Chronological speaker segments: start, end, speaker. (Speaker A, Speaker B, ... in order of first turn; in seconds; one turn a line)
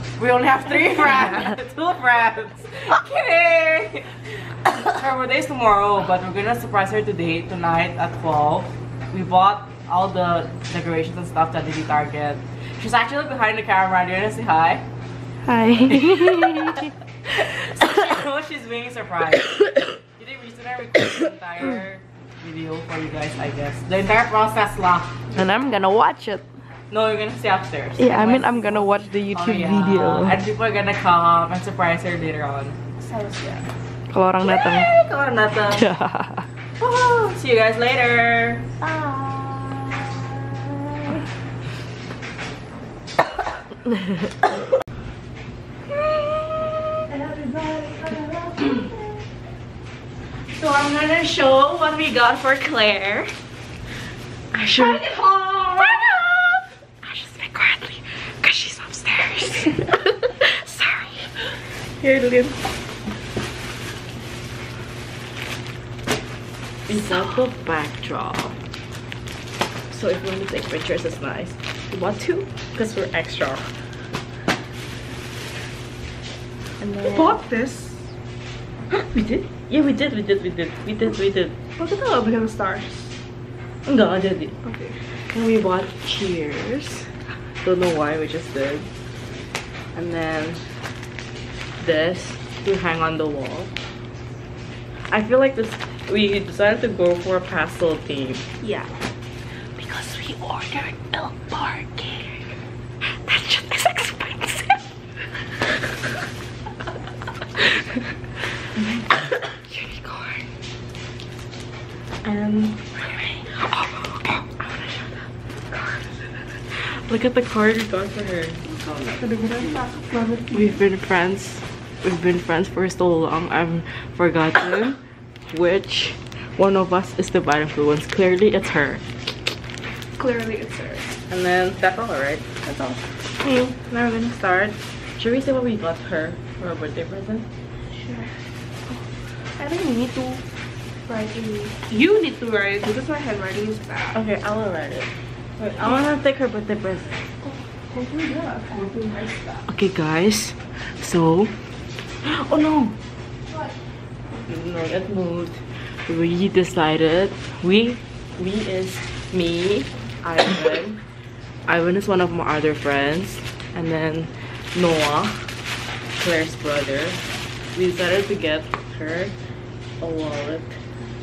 Speaker A: 0.2-4.1
Speaker B: 0.7-1.4
Speaker A: 4.7-14.8
Speaker B: 15.4-16.9
Speaker A: 15.9-25.4
Speaker B: 25.3-26.4
Speaker A: 26.9-32.8
Speaker B: 28.0-30.4
Speaker B: 33.0-34.9
Speaker A: 34.4-35.9
Speaker B: 35.8-36.4
Speaker A: 36.8-38.7
Speaker B: 38.8-41.1
Speaker A: 43.9-44.3
Speaker A: 45.9-47.0
Speaker B: 47.1-49.0
Speaker A: 50.5-53.3
Speaker A: 54.5-61.3
Speaker B: 54.8-56.2
Speaker A: 62.0-62.6
Speaker A: 66.9-68.6
Speaker A: 69.9-73.7
Speaker B: 71.9-72.4
Speaker B: 76.8-78.0
Speaker A: 78.9-81.6
Speaker B: 81.8-83.1
Speaker A: 83.9-84.6
Speaker B: 84.6-85.0
Speaker A: 85.3-87.1
Speaker A: 87.6-88.9
Speaker A: 89.9-90.6
Speaker A: 91.8-93.7
Speaker A: 95.1-98.5
Speaker B: 98.6-98.9
Speaker A: 99.8-102.4
Speaker A: 103.2-104.8
Speaker A: 108.8-110.4
Speaker A: 112.2-115.2
Speaker A: 116.7-118.6
Speaker B: 118.7-120.8
Speaker A: 120.5-125.0
Speaker A: 125.5-129.0
Speaker B: 130.2-131.1
Speaker A: 131.3-132.4
Speaker B: 132.6-133.0
Speaker A: 133.4-137.5
Speaker B: 137.9-138.3
Speaker B: 139.6-140.4
Speaker B: 141.1-144.2
Speaker A: 144.1-147.2
Speaker B: 147.4-149.6
Speaker A: 149.7-151.5
Speaker A: 152.2-152.9
Speaker A: 154.4-161.0
Speaker A: 161.7-165.4
Speaker A: 166.1-167.2
Speaker A: 167.7-169.3
Speaker A: 170.0-170.8